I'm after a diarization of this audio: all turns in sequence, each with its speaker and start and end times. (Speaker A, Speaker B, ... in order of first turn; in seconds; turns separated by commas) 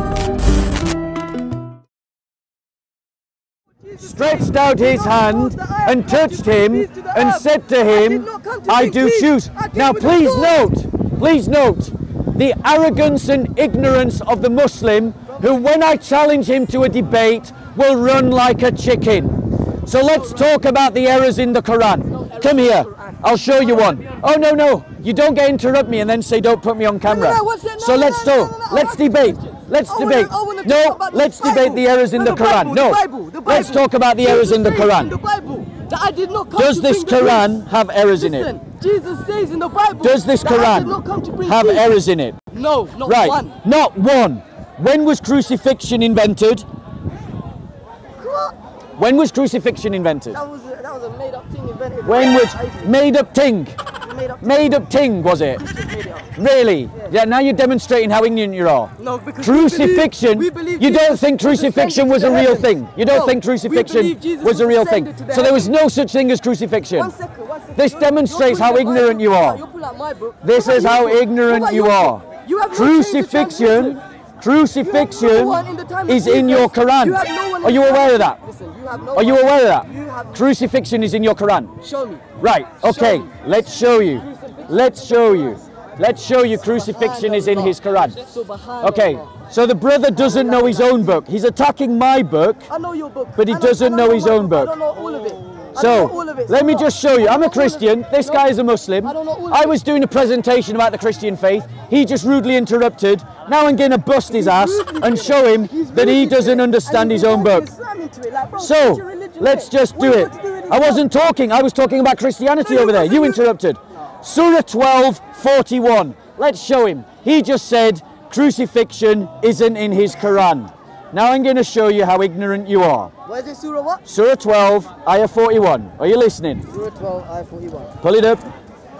Speaker A: 3.8-10.7, Speaker B: 4.0-35.1, Speaker A: 20.1-20.5, Speaker A: 22.1-24.2, Speaker A: 27.0-41.9, Speaker B: 36.5-38.5, Speaker B: 40.0-42.4, Speaker A: 42.5-43.6, Speaker B: 43.0-46.6, Speaker A: 48.2-48.5, Speaker B: 49.0-50.4, Speaker A: 50.3-52.9, Speaker B: 52.0-53.8, Speaker A: 54.0-54.9, Speaker B: 54.4-55.6, Speaker A: 55.4-56.3, Speaker B: 56.4-67.1, Speaker A: 59.0-65.8, Speaker A: 66.9-74.0, Speaker B: 67.8-69.6, Speaker B: 70.4-78.4, Speaker A: 74.8-80.4, Speaker B: 79.1-81.7, Speaker A: 81.8-83.5, Speaker B: 82.4-88.2, Speaker A: 84.1-85.6, Speaker A: 86.7-89.4, Speaker B: 88.8-92.7, Speaker A: 90.1-91.2, Speaker A: 92.7-98.5, Speaker B: 93.4-94.7, Speaker B: 95.8-107.7, Speaker A: 99.0-99.8, Speaker A: 104.3-111.1, Speaker B: 108.6-123.1, Speaker A: 112.6-113.5, Speaker A: 123.2-124.0, Speaker B: 124.0-126.7, Speaker A: 126.7-127.9, Speaker B: 128.0-128.4